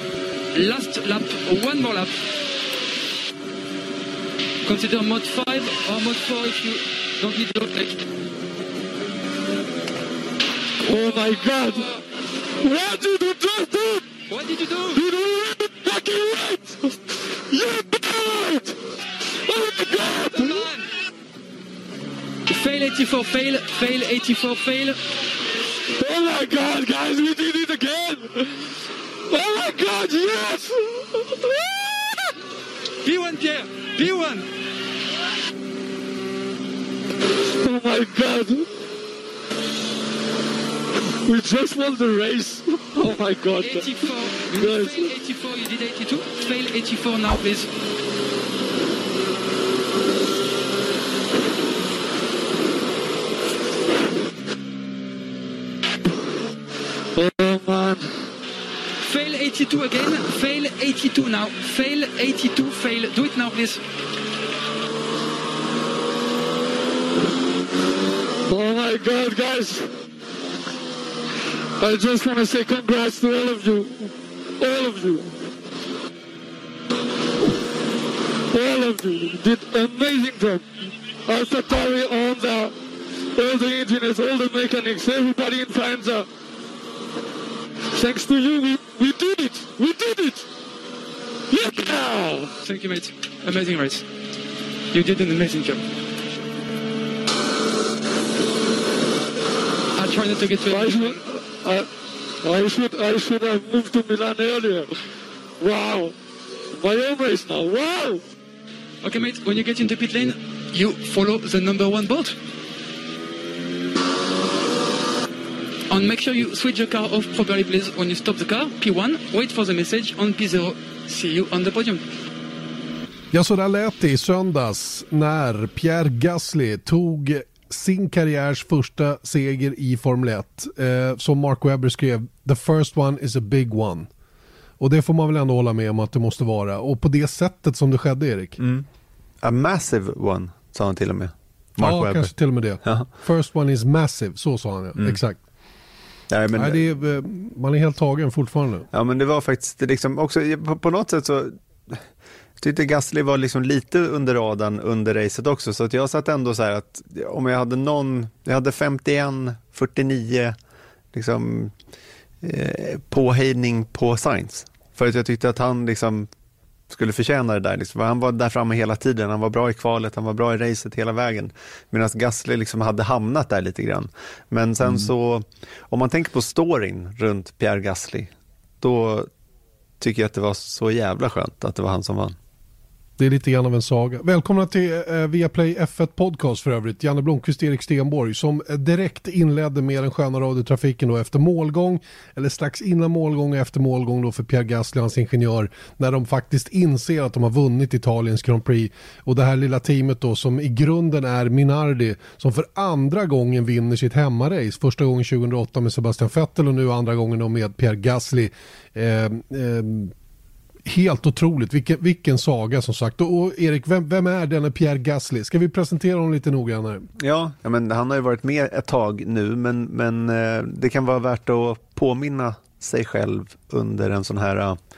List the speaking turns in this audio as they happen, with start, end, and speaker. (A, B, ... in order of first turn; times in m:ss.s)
0:00.5-0:02.1 A
0:04.6-0:08.1 A
0:10.8-0:12.0 B
0:12.6-0:14.1 B
0:14.3-0:15.0 A
0:14.9-0:18.8 B
0:19.4-0:20.7 B
0:20.4-0:20.9 A
0:22.5-0:25.0 A
0:25.9-0:28.7 B
0:29.3-0:31.8 B
0:33.0-0:34.5 A
0:37.4-0:38.7 B
0:41.2-0:43.9 B
0:43.6-0:47.7 A
0:44.5-0:45.1 B
0:57.2-0:58.1 B
0:59.0-1:03.8 A
1:08.5-1:09.9 B
1:11.8-1:15.4 B
1:18.5-1:20.7 B
1:21.3-1:22.8 B
1:23.4-1:26.3 B
1:27.9-1:30.5 B
1:31.5-1:32.5 B
1:32.6-1:34.0 A
1:34.9-1:35.8 A
1:40.0-1:41.2 A
1:40.7-1:41.9 B
1:42.4-1:44.9 B
1:45.6-1:46.2 B
1:46.8-1:48.2 B
1:49.0-1:52.4 A
1:55.9-2:02.0 A
2:03.3-2:14.1 C
2:14.8-2:18.6 C
2:18.6-2:18.9 D
2:19.4-2:22.3 D
2:21.8-2:25.4 C
2:26.3-2:26.8 D
2:26.5-2:28.9 C
2:28.9-2:32.0 D
2:32.6-2:40.6 D
2:41.1-2:41.7 D
2:42.4-2:46.3 D
2:46.9-2:59.3 D
3:00.0-3:02.4 D
3:03.2-3:30.1 C
3:30.8-3:37.1 C
3:37.2-3:44.8 D